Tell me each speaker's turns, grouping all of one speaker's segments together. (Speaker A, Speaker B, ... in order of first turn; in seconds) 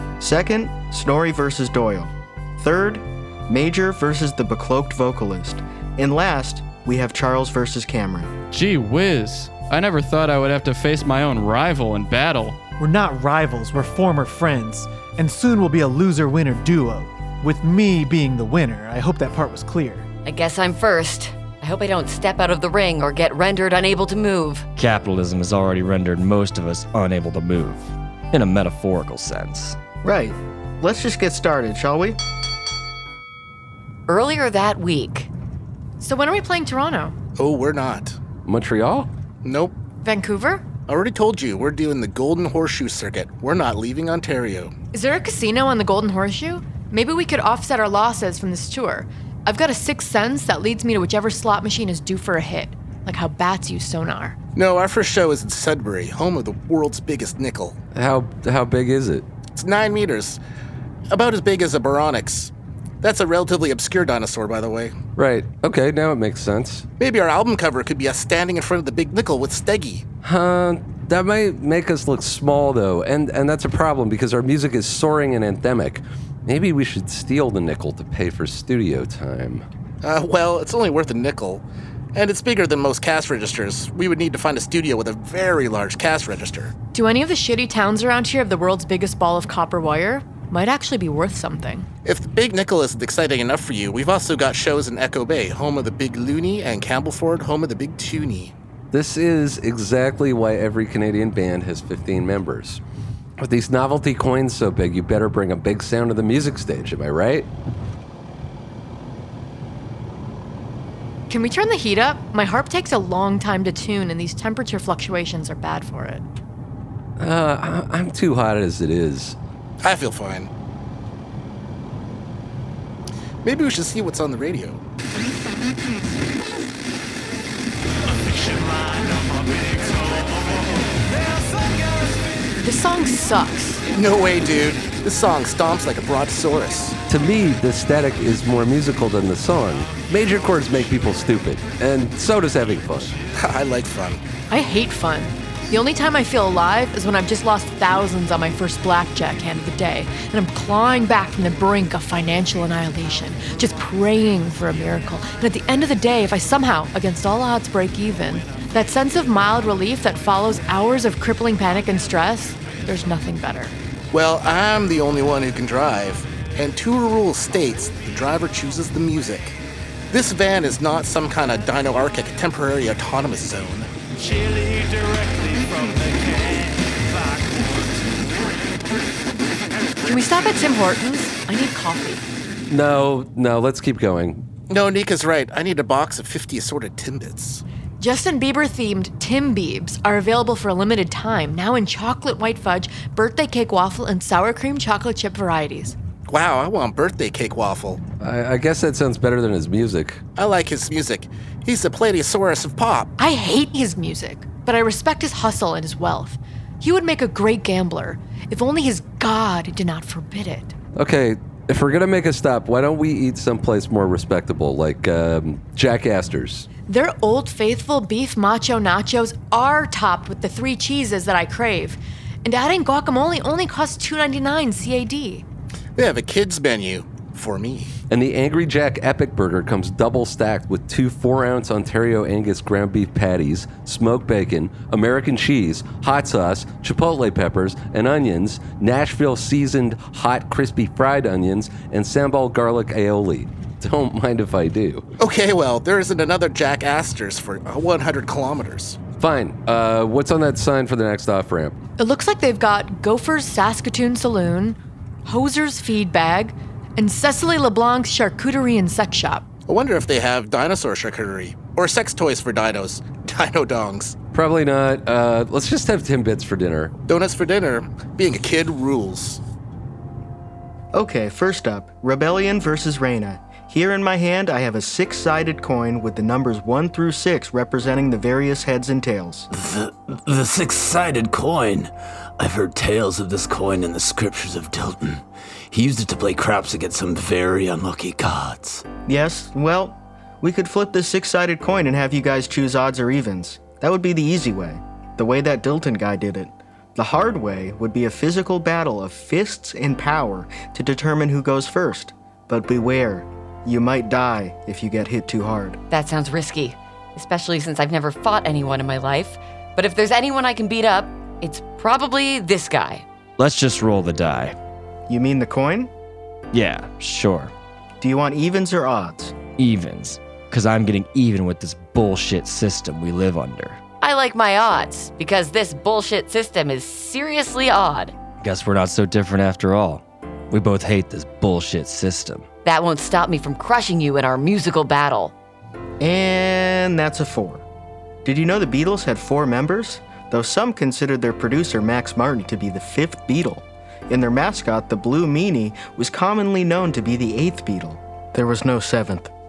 Speaker A: 0.2-8.3, 30.0-32.2, 270.9-279.5, 289.1-305.8, 315.1-315.9, 318.0-319.4, 336.0-337.6, 338.2-349.3
Speaker B: 8.5-12.6
Speaker C: 12.8-20.1
Speaker D: 20.2-24.6, 34.1-35.3, 305.9-313.1, 324.0-328.1, 332.6-335.3
Speaker E: 24.8-29.8, 313.4-314.6, 316.5-317.5, 319.6-323.8, 328.4-332.4
Speaker F: 36.0-37.1, 40.0-40.6, 44.9-54.4, 86.9-91.9, 111.3-116.3, 132.6-133.8, 144.5-163.7, 180.1-182.2, 188.0-195.9, 203.2-210.8, 216.9-225.4, 252.0-259.4
Speaker G: 37.4-38.2, 39.4-39.8, 40.9-44.7, 54.6-57.8, 59.5-60.4, 61.1-62.5, 63.0-65.0, 67.0-70.0, 80.0-81.6, 82.1-86.7, 92.0-98.5, 119.8-120.5, 123.4-124.8, 133.9-137.0, 143.3-144.2, 164.1-169.6, 170.1-173.9, 184.7-187.6, 196.3-198.0, 200.4-203.1, 225.9-227.9, 245.2-249.0, 259.7-264.1, 267.1-269.4
Speaker H: 38.4-39.1, 57.9-59.2, 65.2-66.8, 70.2-79.6, 98.9-102.8, 103.4-107.5, 117.2-119.4, 137.1-143.2, 182.7-184.4, 198.2-200.2, 211.0-216.7, 228.1-245.1, 249.2-251.8, 264.3-266.9
Speaker I: 279.5-288.9